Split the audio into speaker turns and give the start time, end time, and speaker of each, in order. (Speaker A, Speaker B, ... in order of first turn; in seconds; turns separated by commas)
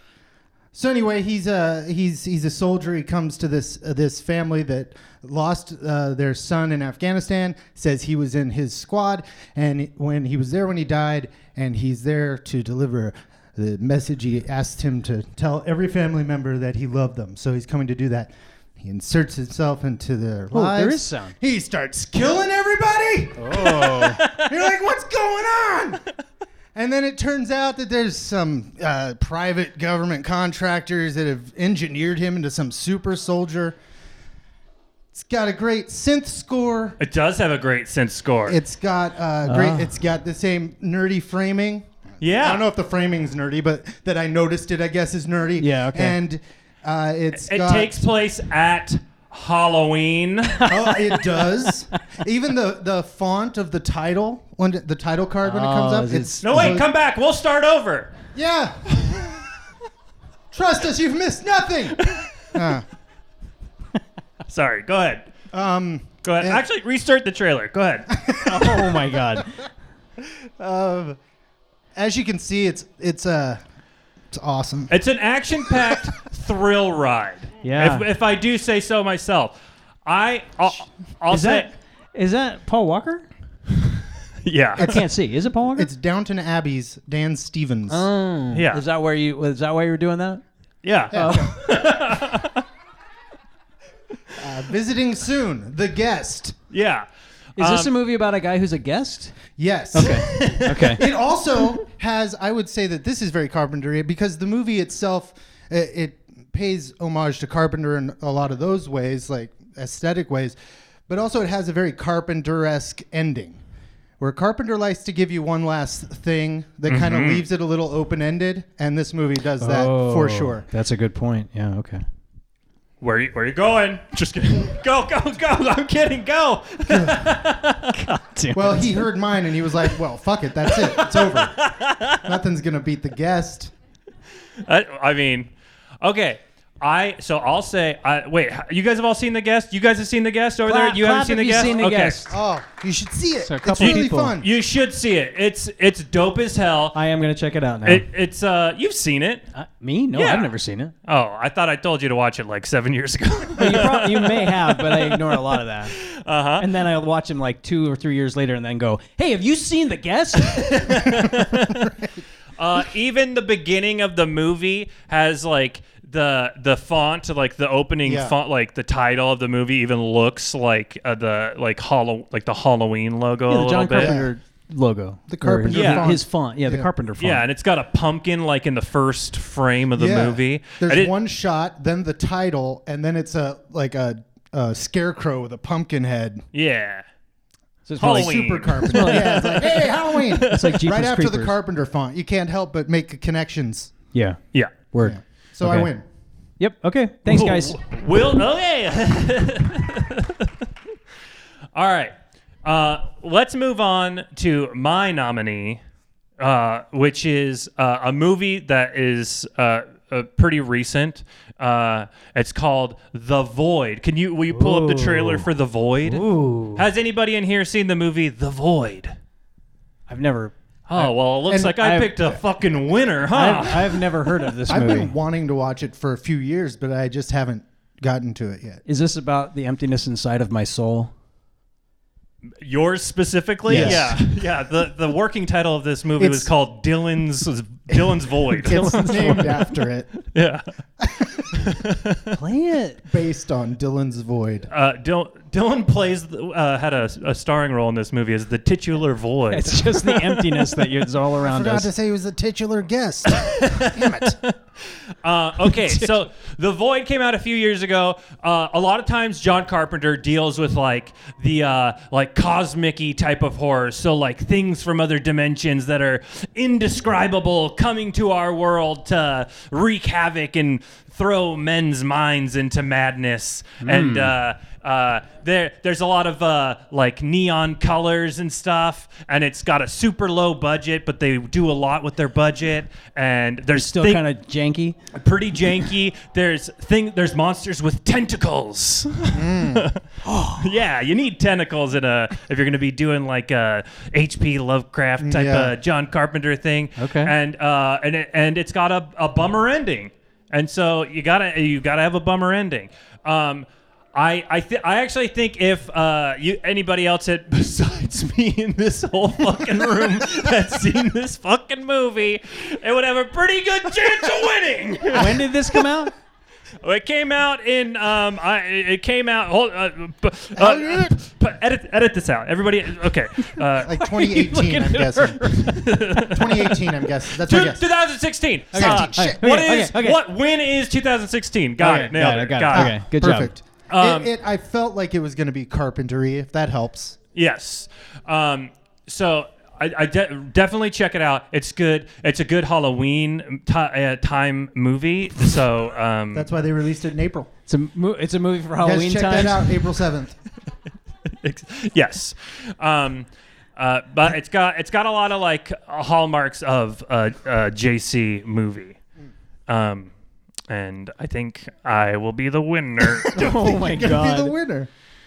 Speaker A: 0.7-26.1, Speaker B: 20.5-21.4, Speaker B: 23.4-24.2, Speaker C: 23.8-24.6, Speaker A: 26.8-33.8, Speaker A: 35.1-37.0, Speaker C: 37.0-38.6, Speaker A: 38.5-48.1, Speaker B: 39.5-40.0, Speaker C: 42.2-42.7, Speaker B: 45.6-46.2, Speaker C: 47.4-50.7, Speaker B: 50.6-51.5, Speaker A: 50.7-56.9, Speaker B: 55.4-56.8, Speaker C: 56.4-58.1, Speaker A: 58.3-59.0, Speaker A: 60.5-62.9, Speaker C: 62.0-62.3, Speaker C: 64.5-65.3, Speaker A: 65.5-66.6, Speaker C: 66.2-68.2, Speaker A: 68.2-69.0, Speaker B: 68.4-69.6, Speaker A: 70.2-71.2, Speaker A: 72.0-73.6, Speaker A: 74.3-74.9, Speaker C: 74.9-81.7, Speaker B: 77.6-78.1, Speaker B: 81.3-83.3, Speaker C: 84.4-85.0, Speaker A: 84.8-85.1, Speaker B: 84.8-85.9, Speaker A: 85.7-88.1, Speaker B: 87.9-90.4, Speaker C: 88.5-88.8, Speaker C: 90.8-92.6, Speaker A: 91.1-91.5, Speaker B: 91.1-91.5, Speaker A: 94.4-96.6, Speaker C: 96.7-97.1, Speaker B: 97.6-99.4, Speaker C: 97.6-97.9, Speaker A: 99.6-110.6, Speaker B: 99.9-101.0, Speaker C: 100.0-101.0, Speaker A: 111.1-113.6, Speaker A: 114.2-120.7, Speaker C: 116.9-117.5, Speaker B: 119.6-122.0, Speaker C: 123.0-128.0, Speaker A: 126.9-127.3, Speaker B: 127.9-129.1, Speaker A: 128.5-133.7, Speaker C: 130.8-132.2, Speaker C: 134.6-135.5, Speaker C: 136.0-142.3, Speaker B: 140.7-142.3, Speaker A: 142.3-144.5, Speaker B: 143.4-144.3, Speaker C: 143.8-147.0, Speaker B: 146.9-148.1, Speaker C: 147.8-149.5, Speaker B: 149.5-150.9, Speaker C: 150.1-150.5, Speaker C: 151.1-156.7, Speaker B: 153.6-155.9, Speaker B: 156.6-161.1, Speaker C: 160.6-161.9, Speaker A: 161.2-162.2, Speaker C: 162.6-174.2, Speaker A: 168.1-168.3, Speaker B: 173.5-177.4, Speaker A: 174.0-174.3, Speaker A: 175.3-176.9, Speaker C: 175.7-176.1, Speaker C: 177.2-181.1, Speaker A: 179.9-186.4, Speaker C: 186.5-187.0, Speaker B: 187.9-189.6, Speaker A: 188.0-193.9, Speaker C: 188.0-190.8, Speaker B: 190.4-191.6, Speaker B: 194.1-195.9, Speaker A: 195.0-196.1, Speaker B: 196.6-197.8, Speaker C: 197.3-200.5, Speaker C: 201.8-205.8, Speaker C: 206.4-216.2, Speaker B: 214.5-215.5, Speaker B: 216.0-216.9, Speaker C: 216.8-219.1, Speaker B: 220.1-220.5, Speaker C: 220.9-224.3, Speaker A: 221.5-221.8, Speaker B: 221.7-222.2, Speaker B: 223.3-225.1, Speaker A: 224.7-228.8, Speaker B: 228.9-231.1, Speaker C: 232.6-239.6, Speaker B: 233.7-234.2, Speaker A: 233.7-234.2, Speaker A: 236.2-236.5, Speaker A: 237.9-240.1, Speaker B: 238.6-239.7, Speaker C: 240.3-240.7, Speaker A: 241.0-241.3, Speaker C: 241.4-242.3, Speaker B: 242.3-243.0, Speaker A: 243.1-244.7, Speaker C: 244.7-250.9, Speaker B: 249.5-251.9, Speaker A: 251.4-254.4, Speaker C: 253.3-284.2, Speaker B: 255.7-256.1, Speaker B: 273.8-274.4, Speaker B: 283.8-285.0, Speaker C: 285.1-315.9, Speaker A: 289.3-289.9, Speaker B: 290.2-290.6, Speaker A: 295.2-295.7, Speaker B: 297.0-297.3, Speaker B: 315.1-316.1, Speaker A: 315.2-315.4, Speaker C: 316.8-324.9, Speaker A: 320.6-321.2, Speaker A: 323.8-325.6, Speaker B: 324.5-325.8, Speaker C: 325.5-333.0, Speaker A: 326.2-327.8, Speaker A: 328.7-329.4, Speaker B: 328.7-330.2, Speaker B: 331.8-333.5, Speaker A: 332.7-337.2, Speaker C: 333.9-334.3, Speaker C: 337.4-346.5, Speaker A: 346.3-347.5, Speaker B: 347.7-349.8, Speaker A: 348.8-350.4, Speaker C: 351.4-359.0, Speaker C: 359.7-360.1, Speaker C: 360.7-363.7, Speaker A: 363.3-364.9, Speaker B: 363.3-364.6